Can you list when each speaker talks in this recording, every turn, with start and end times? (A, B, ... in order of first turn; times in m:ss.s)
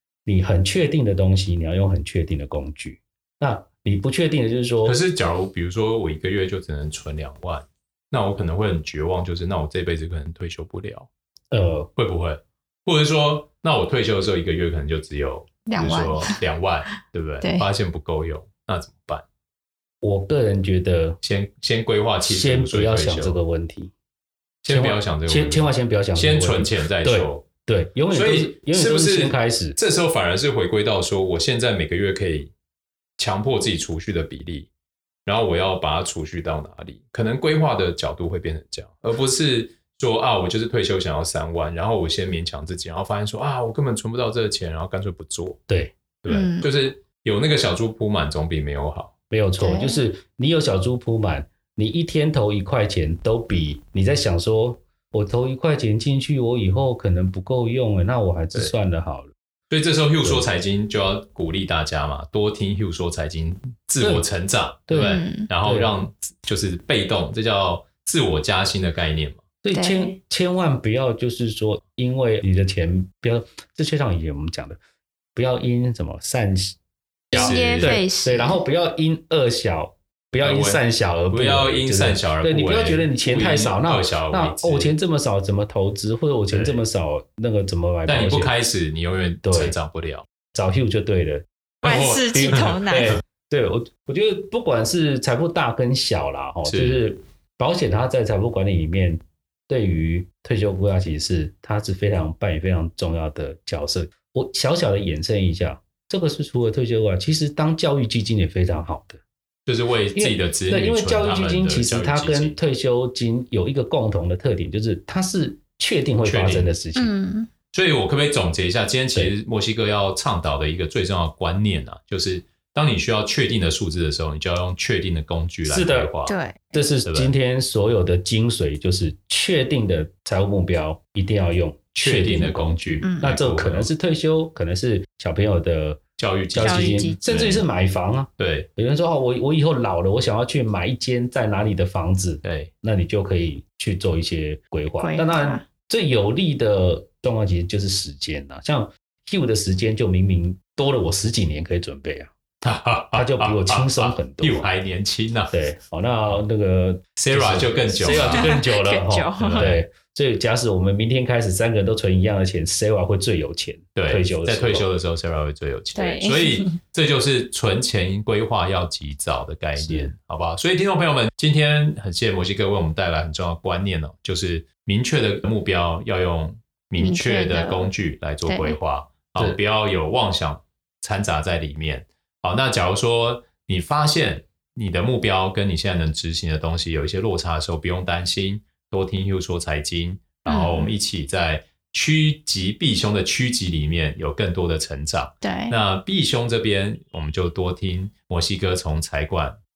0:00.2-0:05.0 A
0:04.8-0:11.1 B
0:11.5-0:11.9 A
0:12.0-0:19.2 B
0:15.7-0:17.7 C
0:20.0-0:21.2 A
0:21.2-0:23.4 B
0:22.2-0:23.9 A
0:24.6-0:27.5 B
0:24.6-0:29.8 A
0:28.1-0:32.5 B
0:33.2-0:34.7 B
0:35.2-0:45.6 B
0:45.7-0:46.0 A
0:46.2-0:49.1 B
0:46.3-0:46.7 C
0:49.3-0:59.3 A
0:49.6-0:50.0 C
0:59.7-1:09.4 B
1:00.2-1:00.5 A
1:04.0-1:04.3 A
1:04.9-1:05.9 A
1:05.0-1:05.5 C
1:09.6-1:14.8 A
1:09.7-1:10.2 C
1:15.4-1:16.8 A
1:17.3-1:28.5 A
1:17.3-1:18.0 B
1:17.3-1:18.6 C
1:20.4-1:24.9 B
1:26.5-1:26.8 B
1:28.1-1:30.3 B
1:29.4-1:29.8 A
1:30.5-1:49.2 A
1:31.8-1:33.2 B
1:31.8-1:33.2 C
1:36.6-1:37.0 B
1:49.7-1:52.6 B
1:50.1-1:57.2 A
1:56.2-1:56.7 B
1:57.0-1:57.5 C
1:57.7-2:06.3 B
2:05.6-2:06.1 A
2:06.3-2:06.8 C
2:06.7-2:16.0 A
2:07.0-2:07.3 B
2:12.0-2:13.9 B
2:13.0-2:13.3 C
2:16.2-2:17.7 B
2:16.5-2:32.3 A
2:16.6-2:17.2 C
2:18.4-2:18.7 B
2:22.4-2:22.7 B
2:25.0-2:25.6 C
2:32.6-2:35.6 B
2:33.1-2:34.7 A
2:35.5-2:44.9 A
2:37.2-2:38.6 B
2:38.0-2:39.8 C
2:39.4-2:39.8 B
2:44.0-3:19.6 B
2:46.0-2:46.8 C
2:49.8-2:50.1 A
2:57.0-2:57.9 C
2:58.5-2:58.8 C
3:10.5-3:11.0 C
3:15.4-3:15.8 C